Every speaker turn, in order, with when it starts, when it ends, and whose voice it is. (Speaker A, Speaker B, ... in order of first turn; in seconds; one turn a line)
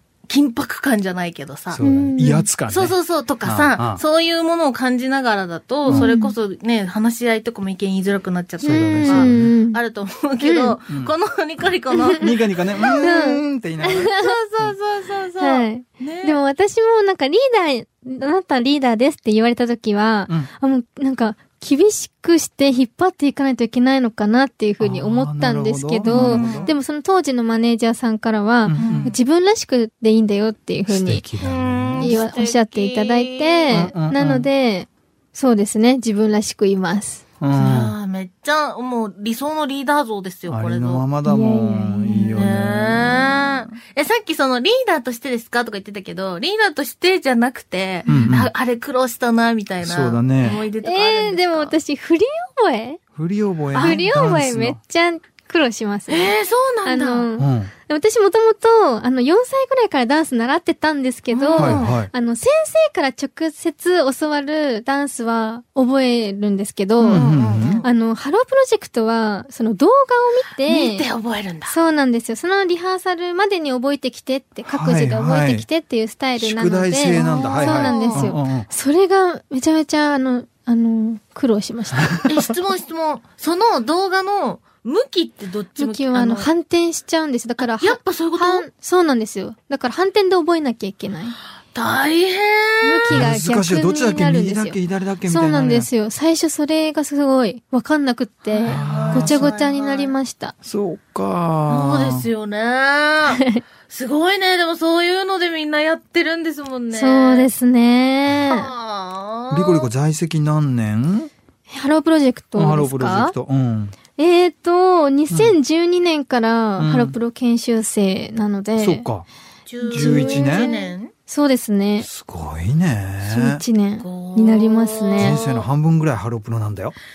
Speaker A: 0.3-1.8
Speaker B: 1.7-4.0
Speaker C: 1.8-2.5
Speaker A: 2.7-13.3
Speaker B: 5.9-6.1
Speaker C: 5.9-6.3
Speaker B: 8.6-9.5
Speaker C: 8.7-9.8
Speaker C: 10.4-10.8
Speaker C: 11.9-12.3
Speaker B: 12.2-14.1
Speaker C: 12.8-14.3
Speaker A: 14.0-16.4
Speaker C: 15.4-31.2
Speaker B: 24.8-26.7
Speaker A: 26.1-26.7
Speaker B: 28.7-29.2
Speaker A: 28.8-29.2
Speaker B: 30.9-32.2
Speaker A: 31.4-33.9
Speaker C: 32.0-37.2
Speaker B: 33.7-34.5
Speaker B: 37.4-37.9
Speaker A: 37.5-41.1
Speaker B: 40.5-43.6
Speaker C: 41.3-42.5
Speaker A: 42.1-51.8
Speaker B: 48.1-48.5
Speaker B: 49.8-50.6
Speaker C: 50.4-53.0
Speaker B: 53.2-54.8
Speaker A: 53.7-54.0
Speaker C: 53.8-56.3
Speaker A: 56.1-57.3
Speaker C: 56.8-71.1
Speaker B: 57.4-57.7
Speaker A: 61.3-62.0
Speaker B: 61.5-62.1
Speaker A: 67.0-67.9
Speaker B: 67.1-67.8
Speaker A: 70.7-71.8
Speaker C: 71.7-82.2
Speaker B: 74.7-75.7
Speaker B: 76.4-78.7
Speaker A: 77.1-78.3
Speaker A: 82.3-86.5
Speaker C: 85.8-91.4
Speaker A: 87.6-88.7
Speaker A: 91.7-93.3
Speaker C: 92.8-100.5
Speaker B: 93.1-95.9
Speaker A: 98.5-100.2
Speaker B: 98.7-99.5
Speaker B: 100.7-102.3
Speaker A: 101.7-107.5
Speaker C: 103.3-103.6
Speaker C: 106.9-108.7
Speaker A: 108.4-109.9
Speaker B: 109.5-111.3
Speaker C: 111.7-113.4
Speaker B: 112.6-114.0
Speaker C: 114.2-119.1
Speaker B: 115.3-115.6
Speaker B: 116.8-117.2
Speaker B: 118.8-119.3
Speaker A: 119.7-121.1
Speaker C: 119.8-122.1
Speaker B: 119.9-120.7
Speaker B: 122.0-123.6
Speaker C: 123.2-125.4
Speaker A: 124.0-125.7
Speaker B: 125.2-127.0